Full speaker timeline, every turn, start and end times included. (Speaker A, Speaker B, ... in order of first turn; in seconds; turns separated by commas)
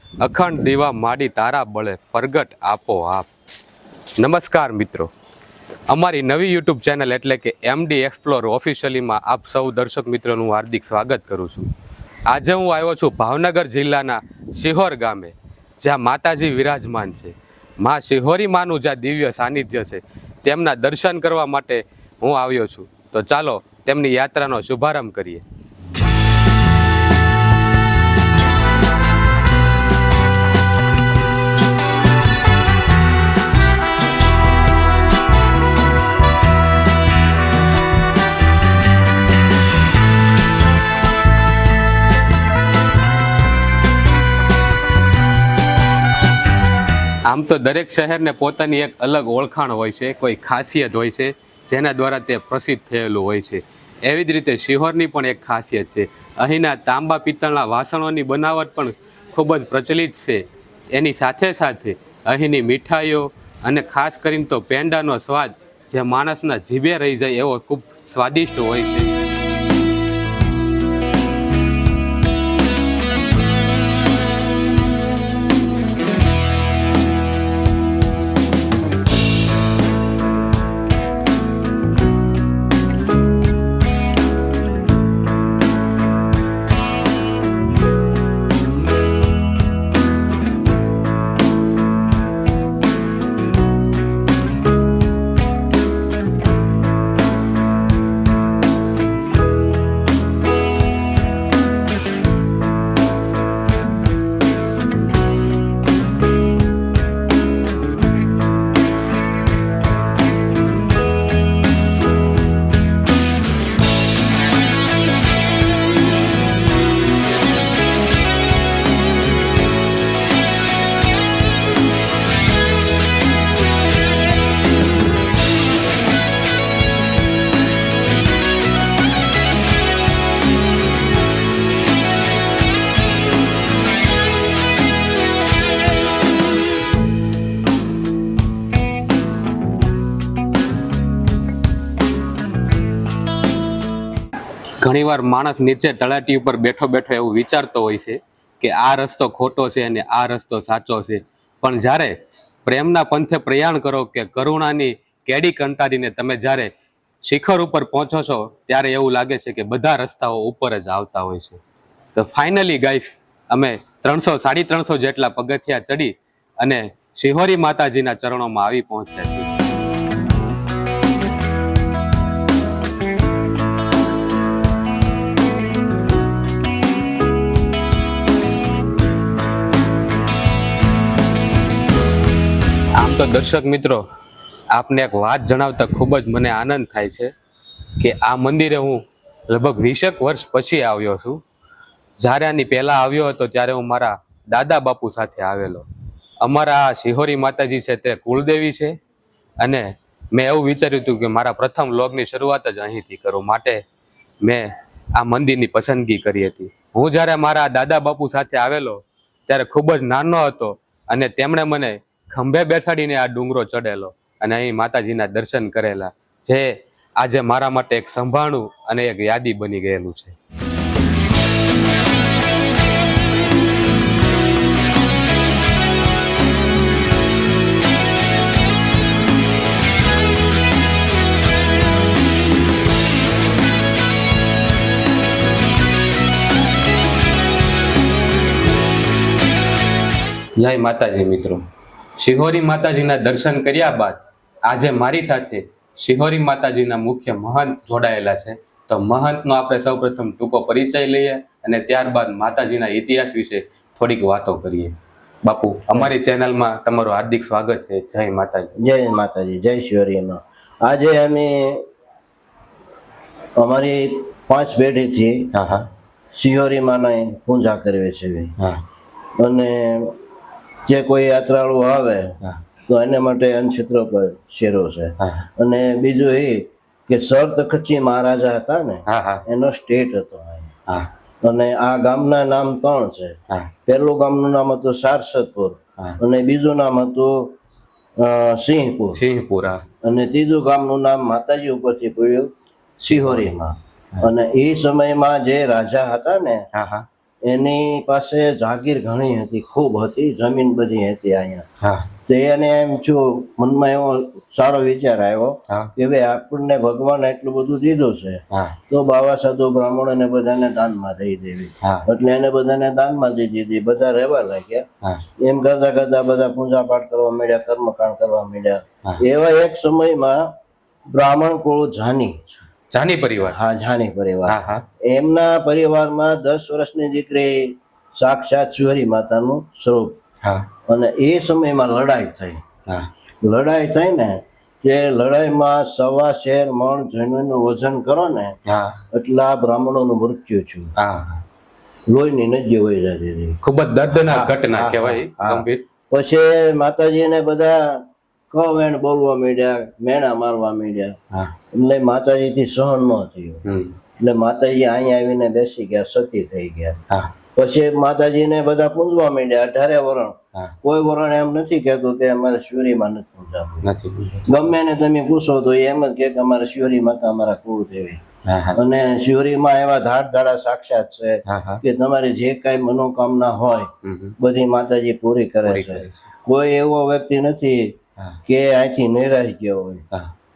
Speaker A: 0.2-3.3, Speaker A: 4.2-5.1, Speaker A: 5.9-11.7, Speaker A: 12.3-25.4, Speaker A: 47.2-69.1, Speaker A: 144.8-156.7, Speaker A: 157.2-161.6, Speaker A: 162.1-169.5, Speaker A: 182.9-184.0, Speaker A: 184.7-187.3, Speaker A: 188.0-191.4, Speaker A: 192.2-195.8, Speaker A: 196.4-198.9, Speaker A: 199.6-203.8, Speaker A: 204.4-220.3, Speaker A: 240.6-241.6, Speaker A: 242.2-258.8, Speaker B: 258.8-261.8, Speaker B: 263.6-265.5, Speaker A: 265.5-265.9, Speaker B: 266.3-268.5, Speaker B: 269.4-270.1, Speaker B: 270.9-272.4, Speaker B: 272.9-280.7, Speaker A: 275.2-275.5, Speaker A: 279.1-279.4, Speaker B: 281.4-287.6, Speaker B: 288.2-289.2, Speaker A: 289.1-289.8, Speaker B: 290.0-296.6, Speaker A: 293.1-293.4, Speaker A: 296.7-297.1, Speaker B: 297.4-301.6, Speaker A: 301.8-302.1, Speaker B: 302.2-314.9, Speaker A: 308.5-308.8, Speaker B: 315.4-320.5, Speaker B: 321.1-322.6, Speaker A: 322.9-323.6, Speaker B: 323.4-330.2, Speaker A: 324.5-324.8, Speaker A: 330.4-330.7, Speaker B: 330.9-332.6, Speaker B: 333.4-338.6, Speaker A: 338.6-339.0, Speaker B: 339.1-340.9, Speaker A: 341.0-341.4, Speaker B: 342.1-343.6, Speaker A: 343.6-345.8, Speaker B: 344.1-351.1, Speaker B: 351.7-353.6, Speaker A: 353.6-354.0, Speaker B: 354.2-357.0, Speaker B: 357.5-363.9, Speaker A: 363.8-364.5, Speaker B: 364.4-368.2, Speaker A: 368.4-368.8, Speaker B: 368.7-380.0, Speaker A: 371.5-371.8, Speaker A: 374.0-374.4, Speaker A: 375.6-376.2